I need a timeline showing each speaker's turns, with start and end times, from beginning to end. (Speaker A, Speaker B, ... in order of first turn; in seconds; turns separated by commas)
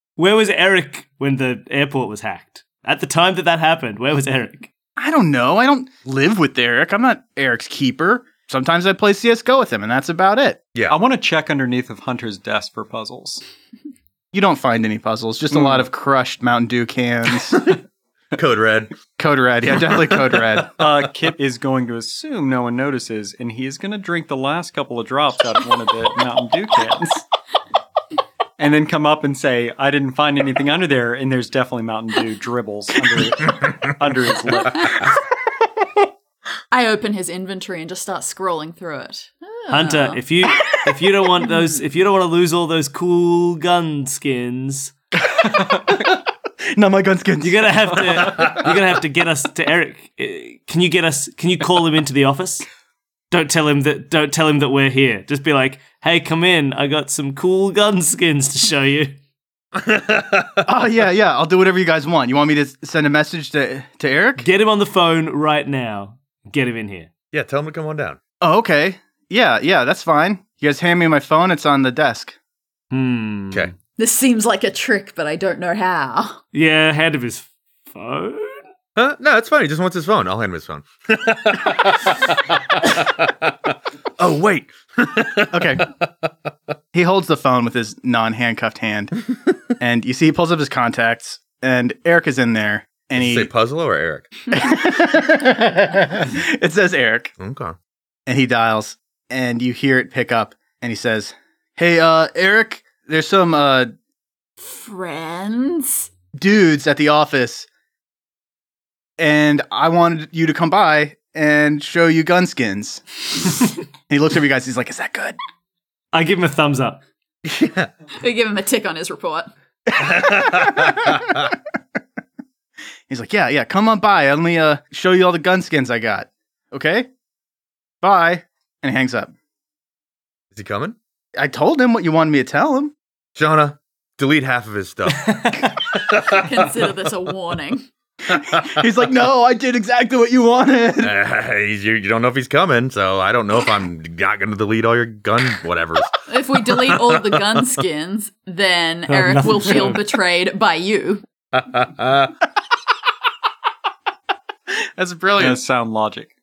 Speaker A: 0.2-4.7, Speaker B: 5.0-10.7, Speaker C: 10.9-13.4, Speaker B: 14.3-17.8, Speaker C: 15.5-15.8, Speaker D: 18.4-18.9, Speaker B: 19.2-20.8, Speaker C: 20.8-27.2, Speaker C: 28.6-35.0, Speaker E: 36.7-40.2, Speaker A: 39.7-44.9, Speaker C: 45.4-45.9, Speaker B: 46.7-48.5, Speaker A: 47.4-52.7, Speaker A: 53.3-59.1, Speaker D: 59.8-60.7, Speaker B: 60.6-64.5, Speaker A: 64.4-67.1, Speaker D: 67.3-68.2, Speaker B: 68.4-72.3, Speaker A: 72.9-73.7, Speaker E: 74.0-76.4, Speaker A: 76.5-78.6, Speaker D: 79.0-85.9, Speaker B: 85.5-85.9, Speaker B: 86.9-93.5, Speaker D: 93.2-94.3, Speaker B: 94.5-97.3, Speaker D: 97.4-97.8, Speaker B: 98.3-103.9, Speaker E: 104.6-106.1, Speaker B: 106.4-107.7, Speaker B: 109.2-115.4, Speaker A: 116.1-117.0, Speaker D: 117.5-117.9, Speaker E: 118.2-119.5, Speaker B: 120.0-121.4, Speaker D: 120.0-121.4, Speaker B: 123.1-127.1, Speaker B: 128.0-129.3, Speaker D: 130.5-131.0, Speaker B: 131.4-132.9, Speaker D: 133.4-135.3, Speaker D: 135.9-136.4, Speaker E: 136.1-137.9, Speaker B: 138.3-141.2, Speaker D: 141.0-146.1, Speaker E: 146.3-151.2, Speaker D: 146.7-147.2, Speaker A: 149.1-150.0, Speaker D: 151.6-152.3, Speaker B: 155.0-155.6, Speaker C: 155.4-156.3